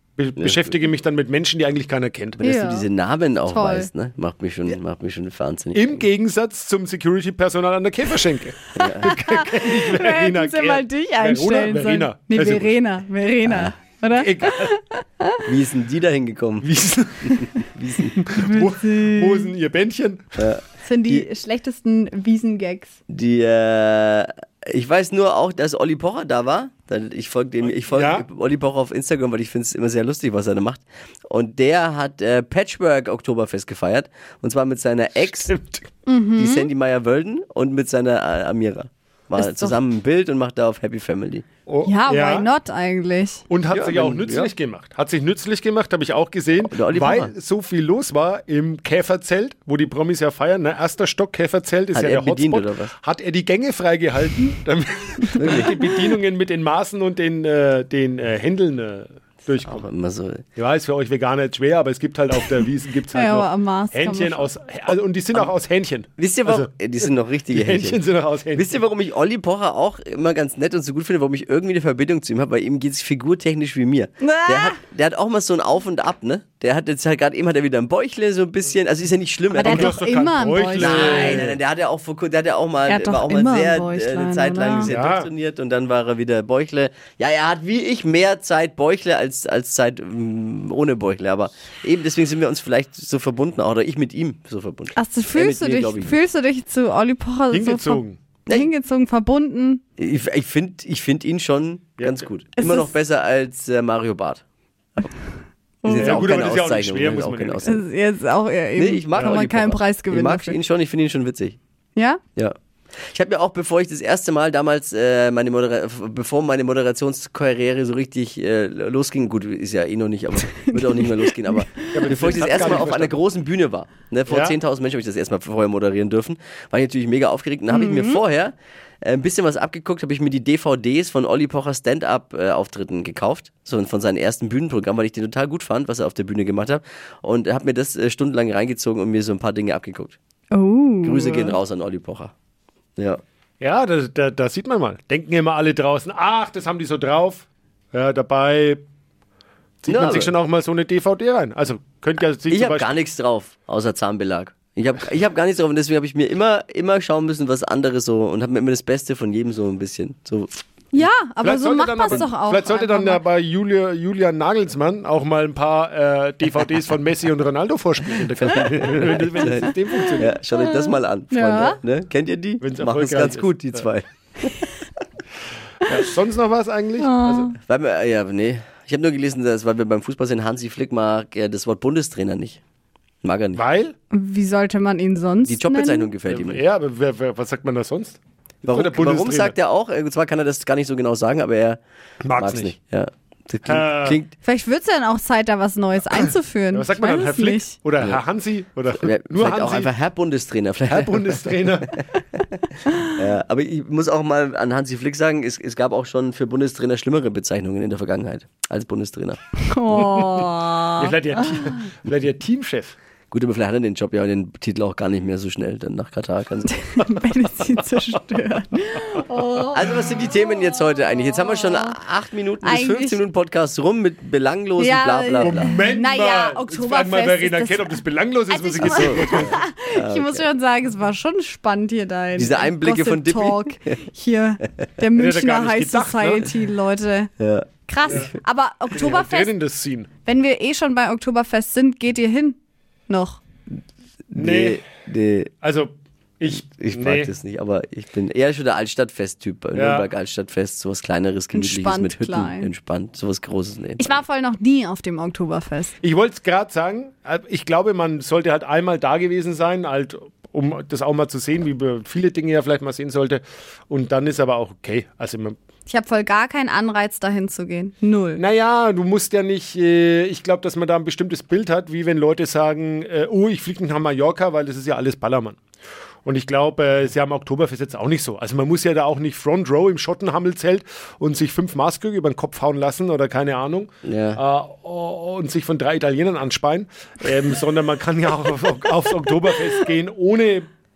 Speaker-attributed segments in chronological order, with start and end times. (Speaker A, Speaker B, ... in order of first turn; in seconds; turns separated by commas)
Speaker A: 0.2-2.4, Speaker B: 0.4-0.7, Speaker B: 2.4-6.0, Speaker C: 2.4-2.9, Speaker C: 3.5-3.9, Speaker A: 5.7-12.7, Speaker B: 8.7-9.1, Speaker C: 8.9-15.5, Speaker B: 13.4-13.7, Speaker A: 14.1-14.7, Speaker B: 15.4-16.7, Speaker A: 16.6-17.5, Speaker B: 17.3-18.2, Speaker A: 18.1-20.4, Speaker C: 18.3-19.5, Speaker B: 20.4-21.2, Speaker C: 20.8-22.9, Speaker B: 23.1-35.5, Speaker A: 27.9-28.2, Speaker A: 35.4-35.8, Speaker C: 36.0-36.7, Speaker B: 36.4-41.4, Speaker C: 39.4-39.8, Speaker A: 41.7-42.5, Speaker C: 41.8-43.4, Speaker A: 43.5-59.9, Speaker B: 43.7-44.5, Speaker B: 46.6-47.3, Speaker B: 51.9-52.9, Speaker B: 55.4-55.7, Speaker B: 59.6-60.4, Speaker A: 60.5-66.7, Speaker C: 63.1-64.5, Speaker B: 66.2-80.0, Speaker A: 67.5-68.7, Speaker C: 74.2-74.8, Speaker C: 79.5-81.5, Speaker A: 79.6-81.6, Speaker B: 80.8-96.2, Speaker C: 82.8-84.9, Speaker A: 84.8-85.3, Speaker C: 94.9-99.8, Speaker A: 97.5-98.2, Speaker B: 100.0-104.4, Speaker A: 102.0-102.3, Speaker C: 102.6-102.9, Speaker C: 105.8-106.3, Speaker B: 105.8-107.8, Speaker A: 105.9-107.8, Speaker C: 107.6-110.6, Speaker B: 108.8-111.6, Speaker C: 112.0-112.2, Speaker B: 113.1-140.2, Speaker C: 120.6-122.4, Speaker A: 121.9-123.2, Speaker A: 124.3-124.6, Speaker C: 127.7-128.2, Speaker C: 140.5-141.5, Speaker B: 141.0-142.3, Speaker A: 143.6-148.8, Speaker A: 149.8-152.9, Speaker B: 149.9-150.3, Speaker B: 152.5-160.6, Speaker C: 160.9-163.2, Speaker A: 161.4-170.4, Speaker B: 168.4-174.5, Speaker C: 170.6-171.8, Speaker A: 172.6-173.9, Speaker A: 175.8-177.5, Speaker C: 177.0-177.5, Speaker B: 177.6-182.6, Speaker B: 183.2-183.6, Speaker A: 183.5-183.9, Speaker C: 184.1-186.1, Speaker B: 185.5-186.6, Speaker A: 186.3-189.6, Speaker B: 188.6-191.8, Speaker A: 192.2-192.7, Speaker B: 192.3-194.3, Speaker A: 193.7-194.2, Speaker C: 194.4-197.7, Speaker A: 196.2-199.9, Speaker B: 198.9-201.8, Speaker A: 200.9-201.9, Speaker B: 203.1-209.4, Speaker C: 209.6-211.2, Speaker A: 209.9-212.9, Speaker B: 213.3-216.7, Speaker C: 216.8-219.9, Speaker B: 219.7-225.7, Speaker C: 221.1-221.9, Speaker C: 222.6-223.2, Speaker C: 224.8-237.3, Speaker A: 225.4-229.6, Speaker B: 228.8-230.4, Speaker B: 232.3-234.0, Speaker A: 235.1-236.6, Speaker B: 237.4-238.3, Speaker C: 237.9-239.5, Speaker A: 238.9-240.1, Speaker C: 240.2-243.4, Speaker B: 244.3-245.5, Speaker A: 244.3-244.8, Speaker A: 245.6-247.3, Speaker B: 246.6-254.2, Speaker A: 249.7-250.1, Speaker C: 251.5-252.7, Speaker C: 254.0-255.9, Speaker A: 256.0-265.6, Speaker C: 265.9-268.4, Speaker A: 268.4-275.6, Speaker A: 276.2-290.7, Speaker B: 284.0-284.4